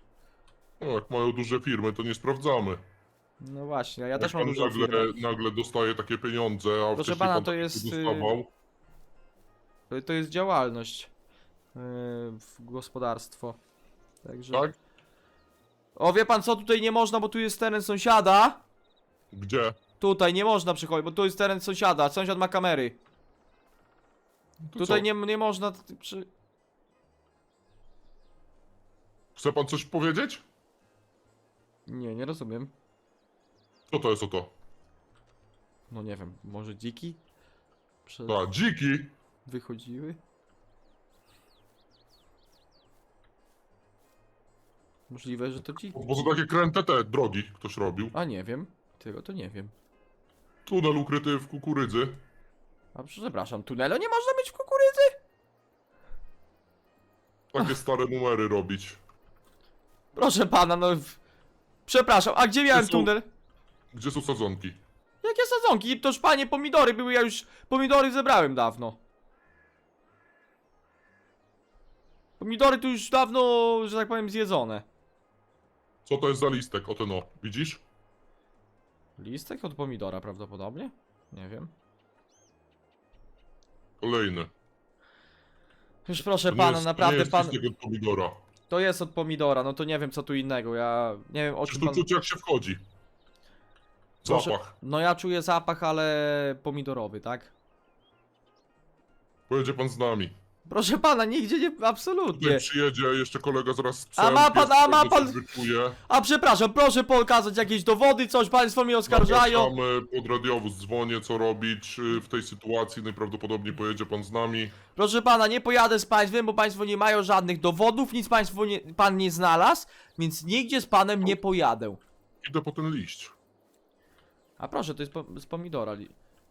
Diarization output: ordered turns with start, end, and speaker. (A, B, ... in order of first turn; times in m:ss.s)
0:00.8-0:02.8 A
0:03.4-0:05.2 B
0:04.2-0:08.5 A
0:07.0-0:08.4 B
0:09.9-0:11.1 B
0:11.8-0:13.6 B
0:14.2-0:14.7 B
0:16.0-0:18.6 B
0:19.3-0:19.8 A
0:20.0-0:23.0 B
0:24.7-0:25.1 A
0:24.8-0:26.3 B
0:29.4-0:30.4 A
0:31.9-0:32.7 B
0:33.9-0:34.5 A
0:35.9-0:37.2 B
0:38.1-0:38.4 B
0:38.3-0:39.1 A
0:39.4-0:40.2 B
0:45.1-0:46.0 B
0:45.9-0:48.1 A
0:48.1-0:49.7 B
0:50.7-0:52.2 A
0:53.0-0:55.2 B
0:57.5-0:59.0 A
1:00.1-1:01.2 B
1:01.9-1:03.2 B
1:02.7-1:03.1 A
1:03.9-1:04.8 A
1:05.2-1:09.0 B
1:12.4-1:14.8 B
1:16.0-1:17.8 A
1:19.2-1:21.7 B
1:24.0-1:24.5 A
1:26.0-1:27.6 B
1:26.5-1:28.4 A
1:28.7-1:32.0 B
1:31.7-1:32.8 A
1:34.2-1:34.7 A
1:34.2-1:37.5 B
1:39.5-1:40.3 A
1:40.7-1:42.6 B
1:42.3-1:46.0 A
1:44.2-1:45.4 B
1:46.0-1:49.7 B
1:49.1-1:54.8 A
1:54.9-2:02.0 B
2:02.4-2:03.3 A
2:04.6-2:06.1 B